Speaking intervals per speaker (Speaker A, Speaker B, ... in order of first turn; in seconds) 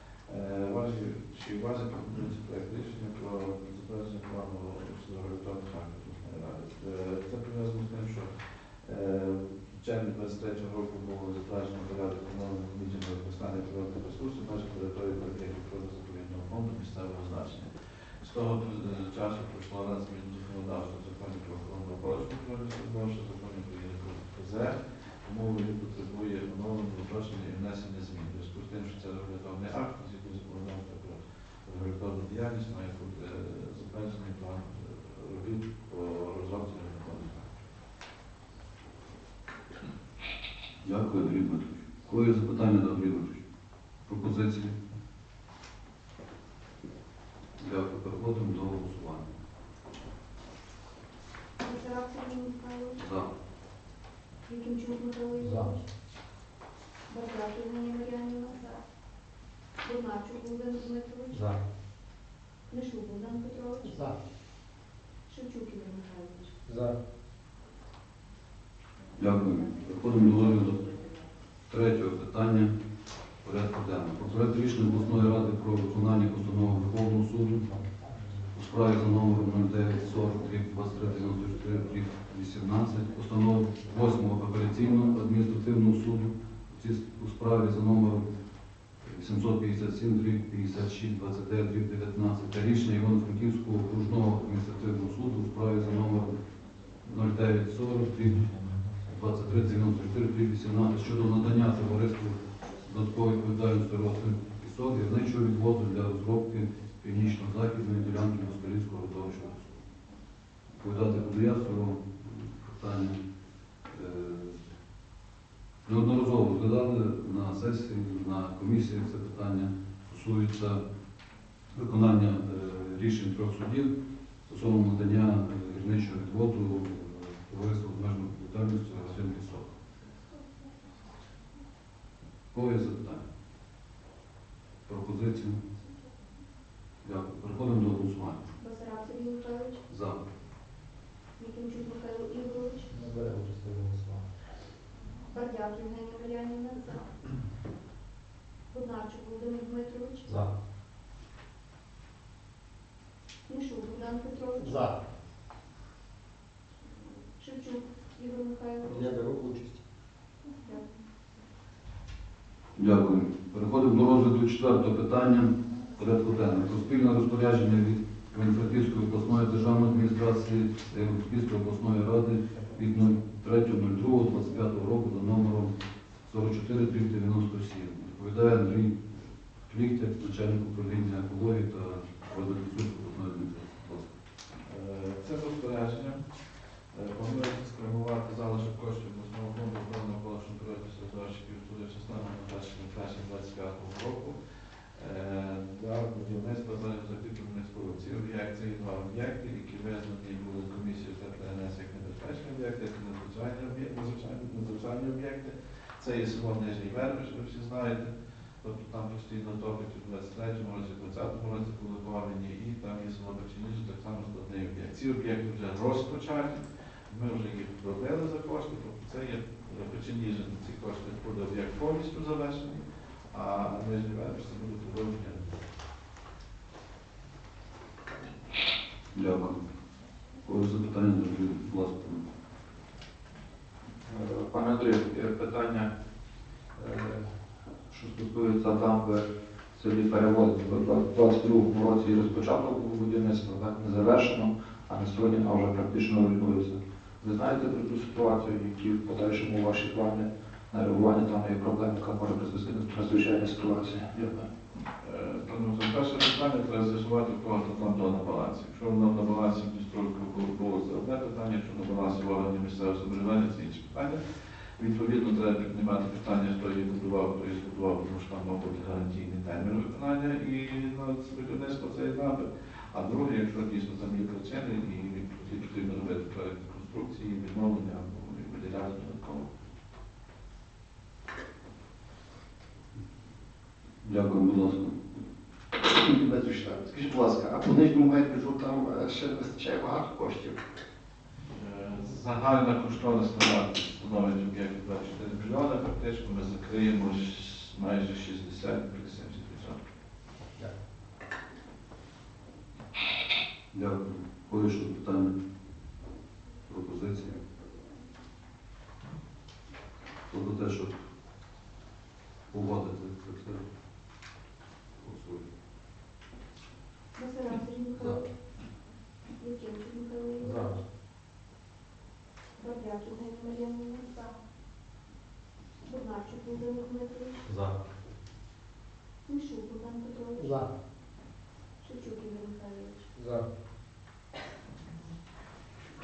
Speaker A: 0.3-8.3, 8.8-17.7, 18.2-37.5, 184.6-186.2, 186.9-194.3, 194.9-225.6, 255.0-264.2, 264.8-279.5, 291.5-299.8
Speaker B: 40.8-43.4, 44.1-44.8, 47.6-49.3, 53.0-53.3, 69.2-70.9, 71.7-72.7, 73.4-77.7, 78.5-88.2, 89.0-96.3, 97.0-109.8, 110.8-113.2, 113.9-114.6, 115.8-120.8, 121.7-123.9, 124.5-129.7, 132.5-133.2, 134.9-135.6, 137.0-138.4, 139.9-140.2, 162.8-175.7, 176.3-179.0, 179.7-184.1, 229.1-229.6, 230.4-232.2, 284.0-285.0, 303.7-305.3, 306.7-307.4, 310.3-310.9, 312.5-313.6, 315.0-315.4
Speaker C: 51.6-53.0, 54.5-55.8, 57.1-58.8, 59.8-61.5, 62.7-64.1, 65.3-66.6, 138.6-139.8, 141.4-142.9, 145.3-147.1, 148.7-150.4, 153.5-154.9, 157.4-159.3, 160.6-160.9, 317.1-318.3, 319.4-320.8, 322.6-324.2, 325.8-327.5, 329.2-330.6, 331.8-333.1
Speaker D: 66.7-66.9, 142.9-144.2, 327.5-327.8, 333.2-333.4
Speaker E: 234.1-235.9, 236.8-237.3, 237.9-254.5
Speaker F: 287.5-289.1, 289.6-290.3